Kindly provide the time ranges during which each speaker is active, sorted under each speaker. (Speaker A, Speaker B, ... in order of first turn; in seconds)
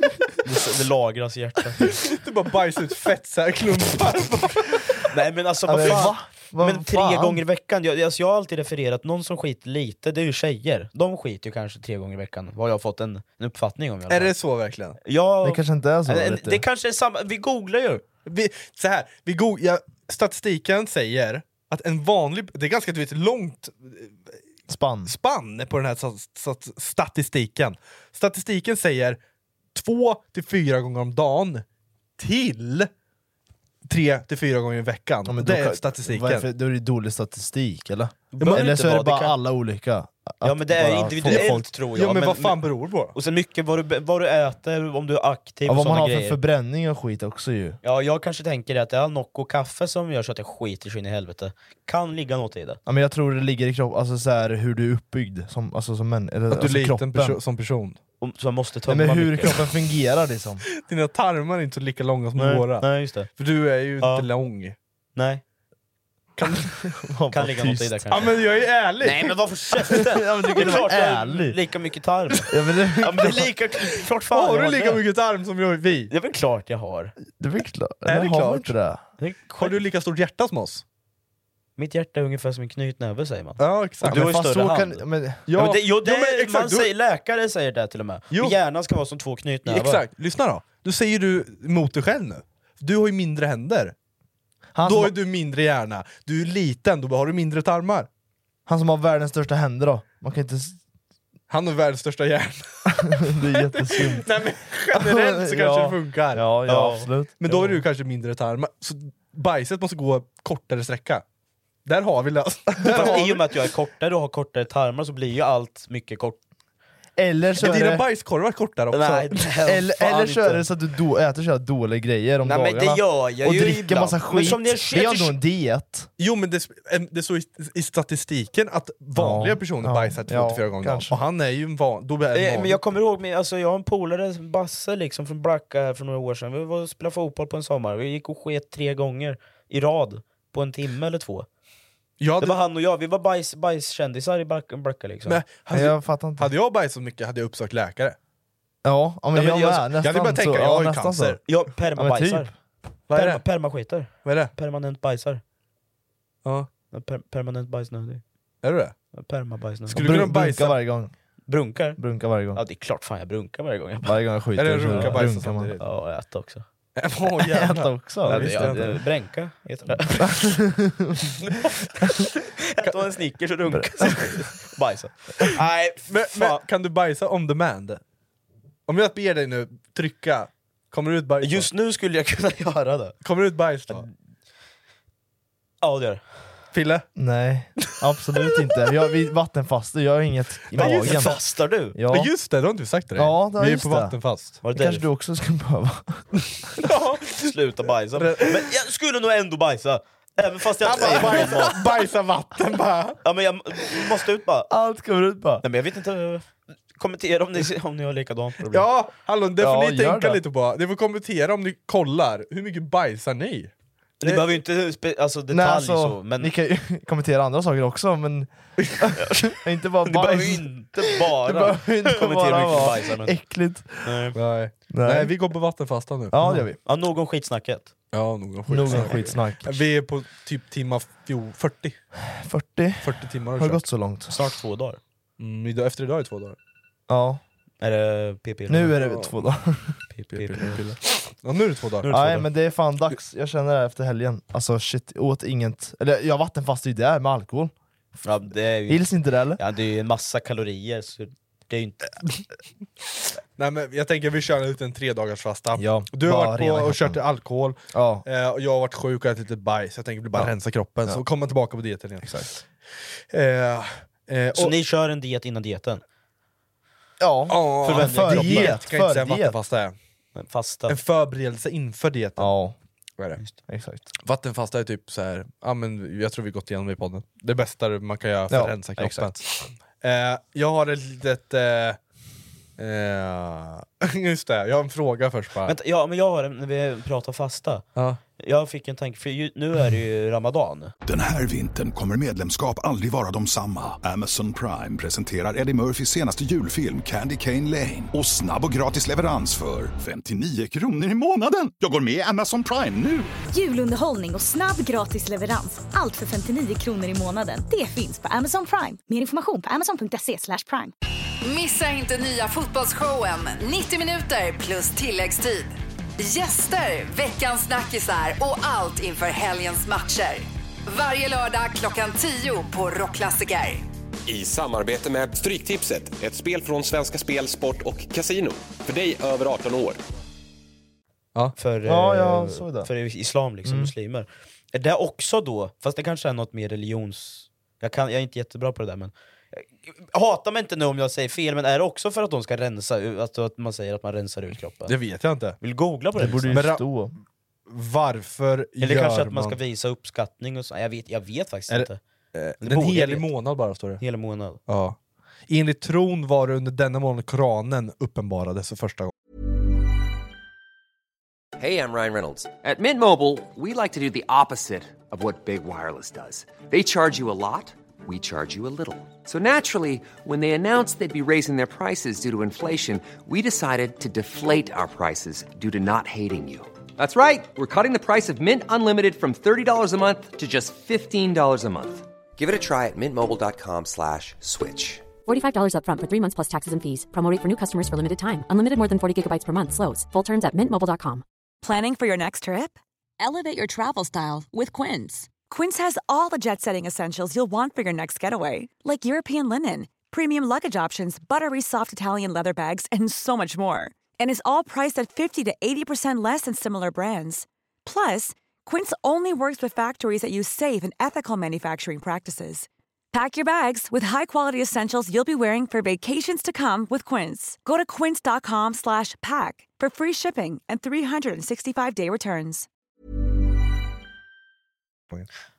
Speaker A: 0.4-1.9, 5.1-14.3, 15.1-18.0, 38.3-39.4, 40.4-42.6, 43.1-46.4, 47.8-52.8, 58.2-59.6, 62.4-63.3, 64.0-64.3, 65.2-65.4, 67.3-68.3, 69.0-75.0, 76.1-77.2, 79.2-79.8, 81.8-90.0, 106.7-107.1, 112.8-116.4, 118.9-120.7, 122.4-125.3, 132.3-141.5, 142.4-145.4, 149.3-149.9, 151.5-152.5, 153.1-155.4, 156.9-158.2, 159.1-160.2, 161.5-162.0, 162.5-166.7, 168.2-170.3, 172.7-176.6, 181.4-183.2, 185.8-186.2, 190.8-192.0, 194.6-195.1, 197.4-201.9, 203.2-204.7, 205.6-208.9, 214.2-216.5, 219.2-219.5, 220.0-223.4, 224.0-224.4, 226.4-227.9, 228.9-229.2, 234.3-235.0, 237.8-239.0, 240.1-240.8, 242.0-242.5, 248.2-252.1, 264.6-266.0, 267.8-268.8, 270.4-271.0, 285.6-287.9, 288.4-290.9, 331.6-344.9, 345.6-346.7, 348.8-352.0, 352.6-353.3, 354.0-354.6
Speaker B: 1.9-5.1, 5.8-6.1, 14.1-15.0, 18.3-24.2, 25.1-29.2, 29.7-31.6, 32.2-32.9, 33.9-36.5, 38.4-38.7, 41.2-43.2, 56.5-58.0, 60.9-64.8, 66.4-66.7, 68.1-70.9, 74.3-76.1, 78.1-78.7, 79.6-80.8, 83.6-84.3, 85.5-86.9, 89.7-93.9, 94.8-98.1, 101.5-106.5, 107.4-111.2, 111.8-113.5, 117.6-119.5, 126.2-132.8, 142.2-142.6, 145.3-148.2, 150.0-151.4, 153.1-153.4, 154.2-154.5, 158.6-158.9, 159.9-160.8, 164.6-165.8, 167.0-169.0, 176.1-178.0, 178.9-181.7, 183.2-184.1, 186.7-187.1, 190.7-191.4, 192.1-194.6, 196.8-197.5, 198.2-198.7, 200.8-203.2, 208.7-213.7, 224.4-226.4, 228.1-232.0, 233.0-233.8, 235.4-236.6, 239.0-239.3, 240.3-242.1, 253.6-262.5, 263.3-264.7, 267.5-269.9, 270.9-272.5, 274.2-282.0, 282.8-285.7, 344.9-345.6, 346.5-346.8, 347.7-349.6, 351.7-354.0, 354.7-355.0, 355.5-359.1
Speaker C: 5.7-7.4, 15.4-16.6, 24.7-25.1, 35.3-41.7, 45.7-47.8, 52.9-57.4, 58.9-60.6, 66.8-68.1, 69.9-71.6, 72.5-73.5, 77.4-79.0, 84.0-85.5, 94.8-95.1, 98.7-100.8, 103.1-104.3, 104.9-107.8, 117.2-118.1, 119.7-126.1, 129.1-131.2, 145.7-146.5, 148.8-151.4, 151.9-152.5, 159.9-161.1, 162.0-162.6, 164.0-165.8, 167.4-169.0, 170.3-171.3, 173.7-174.4, 187.2-191.4, 191.9-192.3, 193.2-194.2, 194.7-196.4, 204.7-205.6, 209.6-210.4, 215.5-224.3, 224.9-225.3, 226.3-226.8, 228.7-229.8, 232.3-234.4, 237.1-237.4, 238.7-240.0, 242.1-247.7, 248.9-249.6, 255.8-257.2, 257.9-258.2, 262.2-262.5, 267.2-269.6, 272.4-272.8, 273.7-274.1, 278.5-279.4, 331.9-332.9, 333.6-333.9, 346.2-347.1
Speaker D: 291.1-303.3
Speaker E: 303.5-310.9
Speaker F: 311.4-323.9
Speaker G: 324.3-330.0
Speaker H: 361.6-385.1
Speaker I: 385.2-391.2
Speaker J: 391.6-392.8, 395.5-422.7